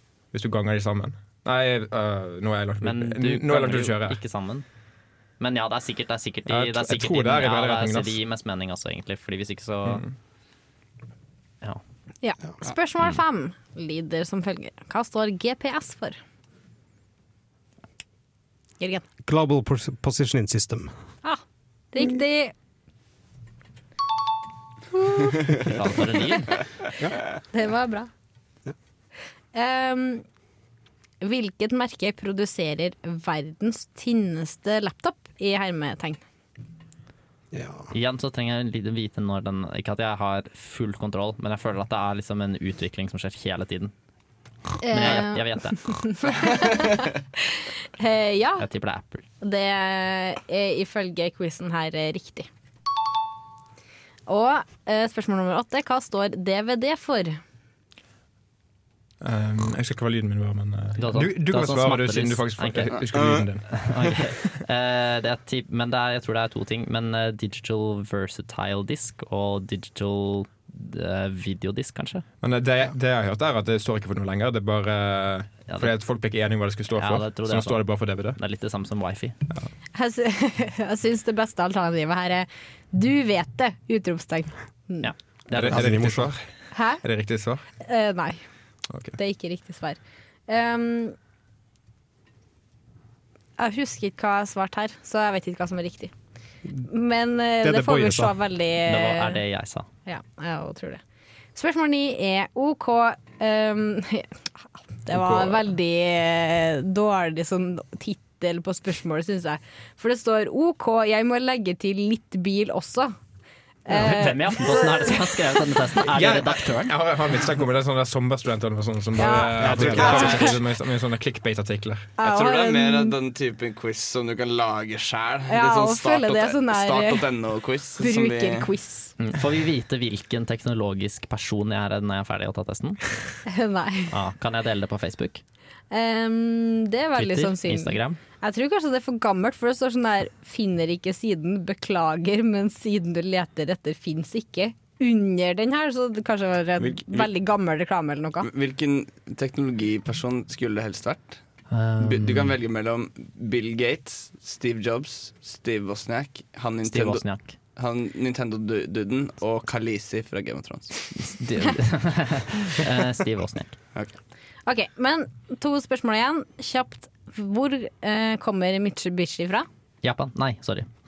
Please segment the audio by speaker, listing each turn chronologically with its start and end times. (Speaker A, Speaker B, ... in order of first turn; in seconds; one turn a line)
Speaker A: 0.3-4.2
Speaker B: 2.8-4.6
Speaker B: 5.4-10.0
Speaker A: 6.5-8.2
Speaker A: 9.8-10.1
Speaker C: 12.2-16.2
Speaker C: 18.8-19.1
Speaker D: 19.2-20.9
Speaker C: 21.2-22.5
Speaker C: 24.9-26.6
Speaker B: 25.6-26.6
Speaker C: 27.5-28.1
Speaker C: 29.5-30.2
Speaker C: 31.2-36.2
Speaker D: 37.5-37.9
Speaker B: 37.9-43.9
Speaker C: 44.8-48.6
Speaker B: 44.9-45.8
Speaker B: 48.6-49.2
Speaker C: 49.4-52.5
Speaker C: 54.3-57.4
Speaker A: 59.2-64.5
Speaker B: 61.0-72.2
Speaker A: 72.4-78.4
Speaker B: 76.9-79.3
Speaker C: 79.9-85.1
Speaker B: 85.0-86.2
Speaker A: 85.5-86.4
Speaker D: 85.6-86.3
Speaker C: 86.7-87.0
Speaker A: 87.0-87.6
Speaker C: 87.8-88.4
Speaker A: 88.9-89.2
Speaker C: 89.2-91.2
Speaker C: 93.6-96.1
Speaker C: 96.9-99.4
Speaker D: 97.6-98.3
Speaker B: 98.8-99.9
Speaker C: 100.0-101.0
Speaker C: 101.5-104.3
Speaker C: 105.0-113.1
Speaker A: 105.1-105.7
Speaker C: 113.8-115.6
Speaker B: 113.9-116.9
Speaker A: 116.1-122.1
Speaker C: 119.2-120.6
Speaker D: 119.6-120.6
Speaker C: 122.2-123.1
Speaker E: 122.2-128.7
Speaker C: 125.5-127.2
Speaker C: 128.0-129.1
Speaker B: 129.2-133.0
Speaker C: 133.5-134.1
Speaker B: 134.1-135.4
Speaker C: 135.9-148.5
Speaker B: 137.1-138.2
Speaker E: 146.8-147.3
Speaker E: 148.4-151.4
Speaker B: 151.7-152.6
Speaker E: 152.0-157.2
Speaker B: 156.8-157.5
Speaker E: 157.8-160.9
Speaker B: 161.1-163.8
Speaker C: 164.7-169.7
Speaker B: 170.0-170.9